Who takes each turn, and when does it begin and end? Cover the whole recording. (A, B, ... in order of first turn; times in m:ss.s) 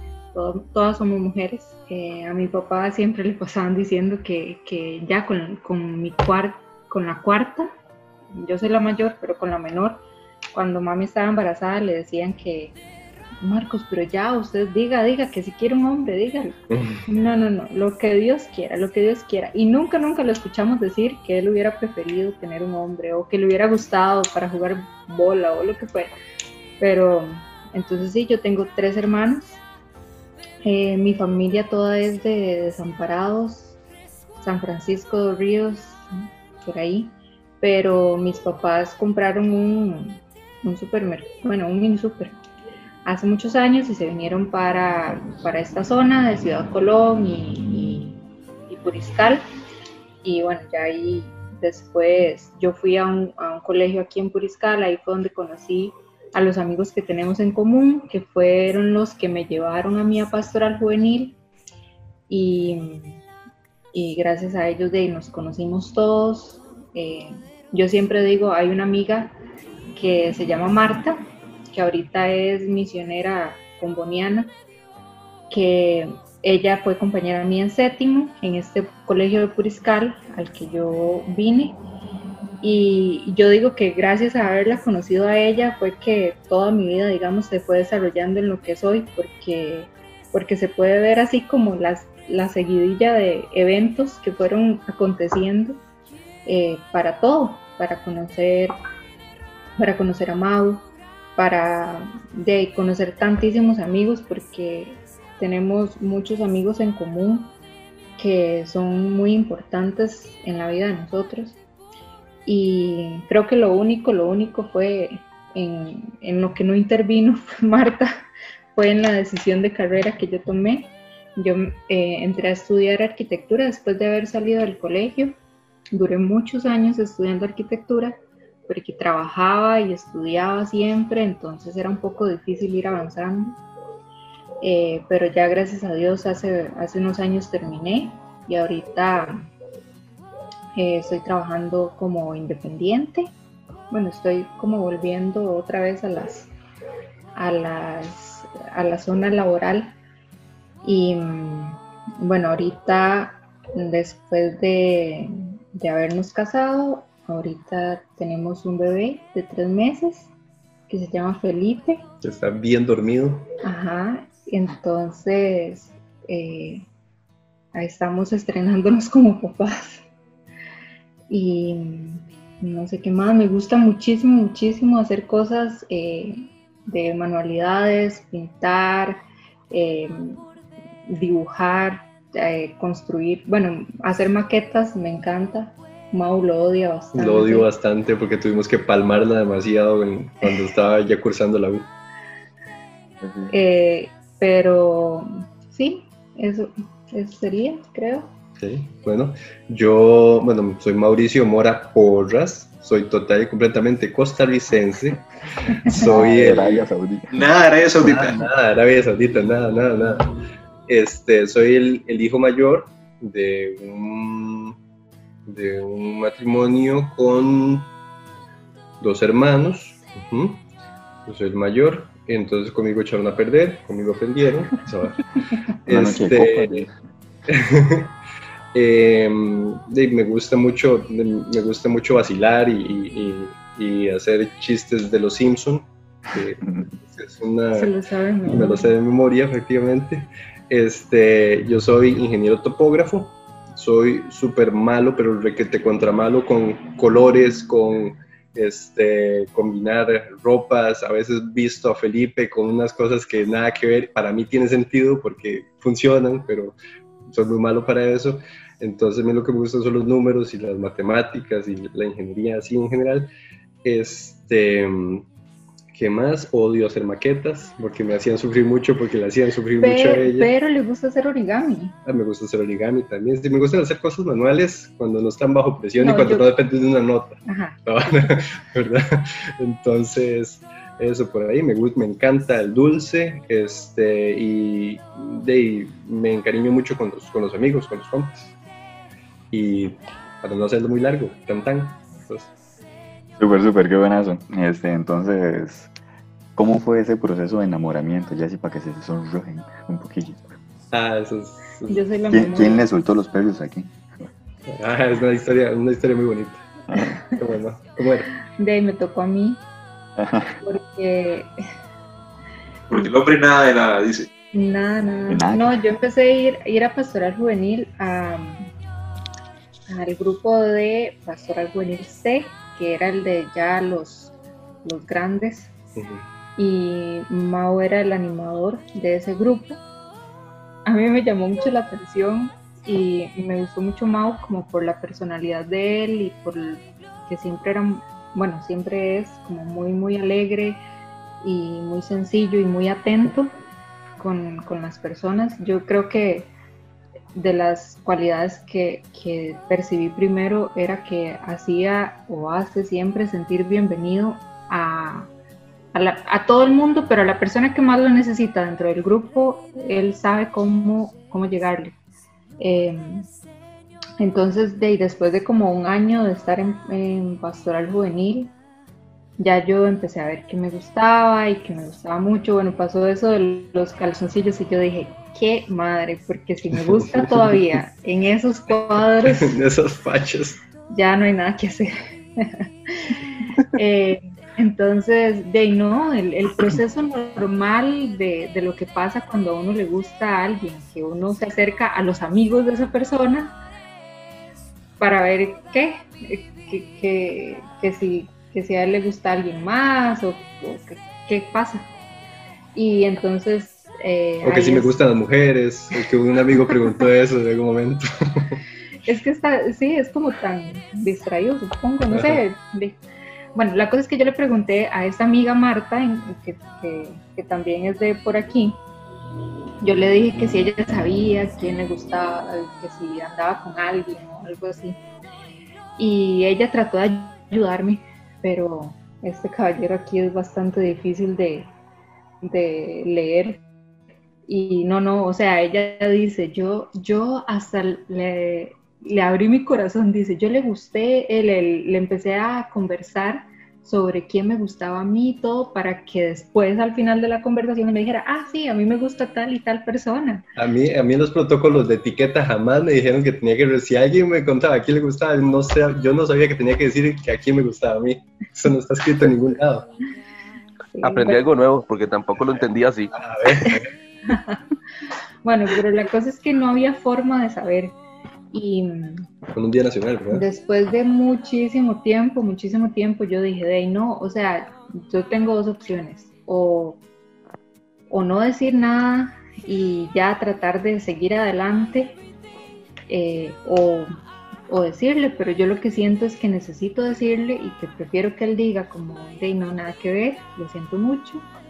0:00.3-0:07.7 A
0:08.3-0:10.0 A
0:10.5-0:12.8 A
0:13.4-0:26.1 A
0:16.7-0:17.0 B
0:26.8-0:29.6 A
0:30.6-0:33.8 A
0:34.4-0:36.1 A
0:36.6-0:42.4 A
0:43.0-0:49.4 A
0:50.2-1:01.4 A
1:02.3-1:03.2 A
1:03.9-1:09.3 A
1:09.9-1:11.2 A
1:11.7-1:14.6 A
1:15.5-1:21.8 A
1:22.6-1:35.8 A
1:36.4-1:38.8 A
1:39.8-1:47.5 A
1:48.2-1:51.6 A
1:52.5-1:58.1 A
1:58.8-2:05.4 A
2:05.9-2:13.6 A
2:14.6-2:19.5 A
2:20.8-2:23.3 A
2:23.9-2:26.5 A
2:27.4-2:29.9 A
2:30.8-2:40.3 A
2:40.9-2:42.0 A
2:42.2-2:43.5 B
2:43.6-2:46.9 A
2:47.7-2:50.1 A
2:51.3-3:00.4 A
3:01.1-3:07.7 A
3:07.1-3:11.9 B
3:13.5-3:18.3 A
3:18.6-3:26.8 B
3:26.0-3:27.4 C
3:27.3-3:28.5 D
3:28.0-3:30.4 B
3:30.9-3:34.8 B
3:35.5-3:37.9 B
3:39.0-3:40.6 B
3:41.3-3:45.3 B
3:45.9-3:46.9 B
3:45.9-3:47.0 C
3:47.5-3:48.1 B
3:48.7-3:57.9 B
3:57.7-3:58.9 A
3:58.5-4:16.8 B
4:17.3-4:23.3 B
4:23.8-4:25.3 B
4:25.9-4:30.5 B
4:29.8-4:32.0 A
4:32.1-4:48.5 B
4:36.0-4:36.5 A
4:37.5-4:37.8 A
4:49.5-4:52.5 B
4:53.4-4:55.9 C
4:56.6-5:00.6 C
5:00.9-5:02.0 B
5:01.9-5:02.9 A
5:02.3-5:03.9 C
5:04.7-5:06.6 B
5:07.2-5:08.3 B
5:08.6-5:09.6 A
5:10.2-5:10.6 C
5:10.6-5:11.5 A
5:12.9-5:14.3 D
5:14.5-5:18.7 A
5:15.3-5:15.8 C
5:19.9-5:25.7 A
5:26.0-5:26.2 B
5:26.6-5:29.8 A
5:30.9-5:40.8 A
5:41.4-5:43.5 A
5:44.2-5:46.5 A
5:47.3-5:55.3 A
5:55.9-6:02.0 A
6:02.6-6:03.3 A
6:04.2-6:08.5 A
6:09.4-6:19.6 A
6:17.0-6:17.6 B
6:19.2-6:20.6 B
6:20.9-6:33.6 A
6:35.0-6:41.9 A
6:42.8-6:44.9 A
6:44.4-6:48.6 B
6:49.1-6:53.0 A
6:52.1-6:52.4 B
6:53.6-6:58.8 A
6:59.8-7:05.0 A
7:06.0-7:11.7 A
7:12.4-7:13.6 A
7:14.5-7:30.4 A
7:30.6-7:39.9 B
7:40.9-7:41.4 A
7:41.0-7:43.1 E
7:43.1-7:43.9 B
7:43.6-7:44.6 A
7:45.4-7:48.0 A
7:48.5-7:49.3 A
7:49.6-7:50.4 B
7:50.3-7:57.0 A
7:58.1-8:02.2 A
8:03.1-8:04.1 A
8:04.7-8:11.5 A